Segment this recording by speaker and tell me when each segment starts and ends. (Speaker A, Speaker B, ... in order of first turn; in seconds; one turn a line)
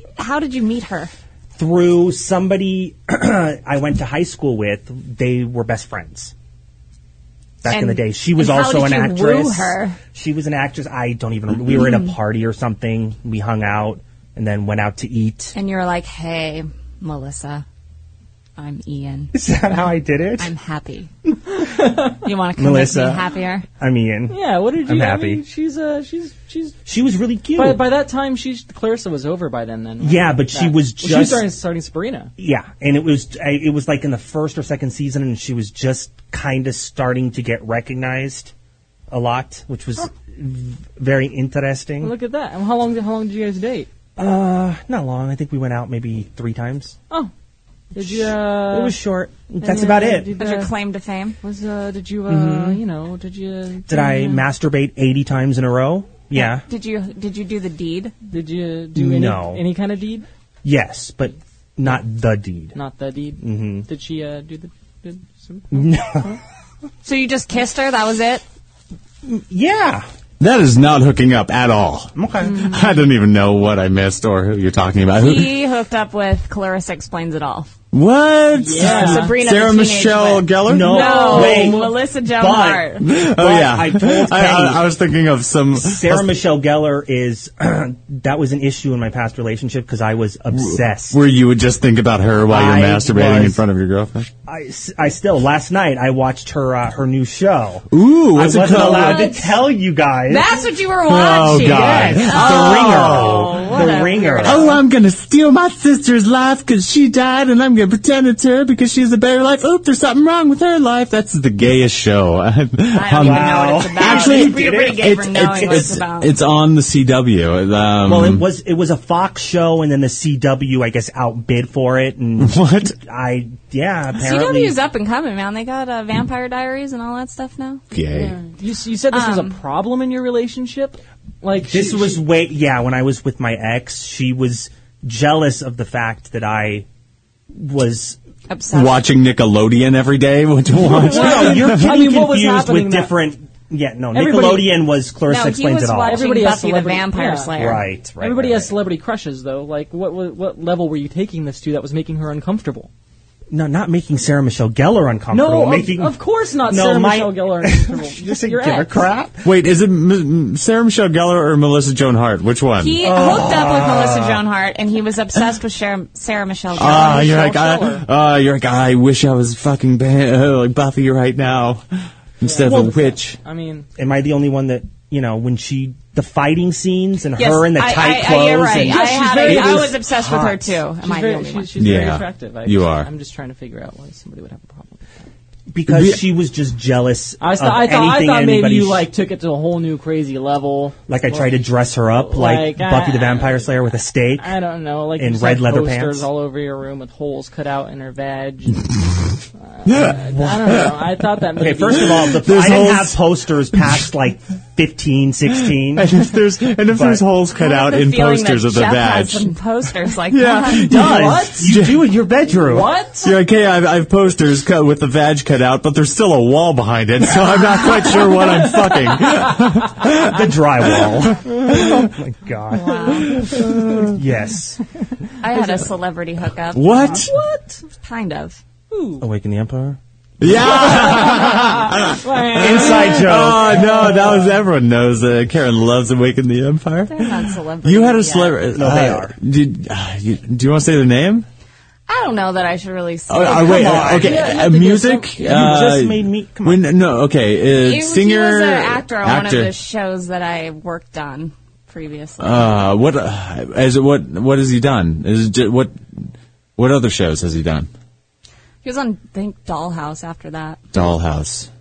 Speaker A: 0.2-1.1
Speaker B: 1.6-6.3
Speaker B: 7.6-15.6
Speaker A: 7.7-10.0
Speaker A: 11.7-12.1
Speaker A: 15.6-17.6
Speaker A: 18.6-19.3
Speaker B: 19.3-20.5
Speaker A: 20.4-21.1
Speaker C: 21.5-22.2
Speaker A: 22.2-23.7
Speaker B: 22.6-25.4
Speaker C: 24.3-26.8
Speaker B: 26.9-27.9
Speaker C: 27.6-32.3
Speaker B: 30.0-31.5
Speaker B: 32.4-38.5
Speaker B: 39.1-42.1
Speaker C: 42.0-43.9
Speaker B: 44.2-47.0
Speaker C: 47.9-49.0
Speaker B: 48.0-50.3
Speaker C: 49.6-50.7
Speaker A: 49.7-51.4
Speaker C: 51.4-54.5
Speaker B: 52.3-52.8
Speaker B: 53.9-56.6
Speaker A: 56.4-58.1
Speaker C: 58.3-60.3
Speaker B: 59.0-59.6
Speaker B: 60.6-62.8
Speaker C: 62.7-66.4
Speaker B: 63.4-63.9
Speaker B: 65.7-66.3
Speaker A: 67.0-68.4
Speaker B: 69.2-70.1
Speaker D: 70.4-75.5
Speaker B: 72.2-72.7
Speaker C: 72.4-72.8
Speaker A: 75.2-77.7
Speaker D: 77.9-81.7
Speaker C: 78.6-79.3
Speaker A: 78.8-83.1
Speaker B: 80.7-84.8
Speaker C: 81.2-81.6
Speaker D: 83.0-86.3
Speaker B: 85.7-91.2
Speaker D: 90.5-94.3
Speaker B: 92.5-93.6
Speaker B: 94.5-100.6
Speaker D: 97.9-99.3
Speaker A: 99.1-99.4
Speaker A: 100.3-104.8
Speaker D: 101.1-103.6
Speaker B: 101.5-104.8
Speaker D: 104.4-118.5
Speaker A: 112.9-116.3
Speaker B: 113.2-116.0
Speaker B: 118.0-124.8
Speaker D: 122.4-123.0
Speaker A: 124.2-127.8
Speaker D: 127.9-128.4
Speaker C: 128.1-132.2
Speaker A: 129.1-129.6
Speaker B: 131.7-136.9
Speaker B: 137.5-138.2
Speaker A: 138.5-139.0
Speaker D: 138.7-141.8
Speaker B: 140.8-146.3
Speaker C: 141.0-143.2
Speaker C: 144.1-144.8
Speaker A: 145.3-147.9
Speaker C: 146.1-147.6
Speaker B: 147.6-148.7
Speaker C: 148.2-152.9
Speaker B: 153.5-159.4
Speaker C: 155.3-159.1
Speaker D: 159.4-163.0
Speaker A: 162.8-167.4
Speaker B: 163.0-164.4
Speaker D: 166.8-171.8
Speaker C: 166.8-168.1
Speaker D: 172.4-173.4
Speaker C: 172.4-173.9
Speaker B: 172.7-173.1
Speaker B: 174.0-180.8
Speaker A: 177.4-181.8
Speaker C: 178.8-180.0
Speaker C: 181.0-185.1
Speaker D: 181.8-183.1
Speaker B: 185.7-189.1
Speaker D: 185.9-186.2
Speaker C: 187.4-198.9
Speaker B: 191.1-194.5
Speaker B: 195.2-196.3
Speaker C: 199.6-202.4
Speaker D: 199.9-200.2
Speaker B: 201.6-206.2
Speaker D: 202.3-203.2
Speaker D: 205.9-209.5
Speaker B: 206.9-207.2
Speaker A: 207.6-210.9
Speaker D: 210.3-212.0
Speaker B: 210.8-212.9
Speaker C: 210.8-211.8
Speaker C: 212.5-213.3
Speaker D: 213.2-222.0
Speaker C: 218.3-219.3
Speaker B: 220.2-223.4
Speaker C: 221.5-221.8
Speaker A: 222.7-223.5
Speaker C: 223.1-223.7
Speaker D: 223.4-224.2
Speaker B: 224.1-224.8
Speaker A: 225.4-227.1
Speaker D: 226.7-227.3
Speaker C: 227.1-227.8
Speaker A: 228.0-228.6
Speaker C: 228.9-229.3
Speaker B: 229.2-230.0
Speaker D: 230.4-241.5
Speaker C: 230.5-234.2
Speaker B: 230.6-231.3
Speaker B: 232.6-234.4
Speaker A: 237.1-238.6
Speaker B: 238.7-239.3
Speaker A: 242.1-244.2
Speaker D: 243.3-249.7
Speaker B: 243.5-244.5
Speaker C: 244.2-246.0
Speaker B: 245.4-246.8
Speaker A: 247.8-252.8
Speaker D: 252.4-256.2
Speaker D: 256.8-257.9
Speaker A: 258.8-260.8
Speaker D: 260.9-261.7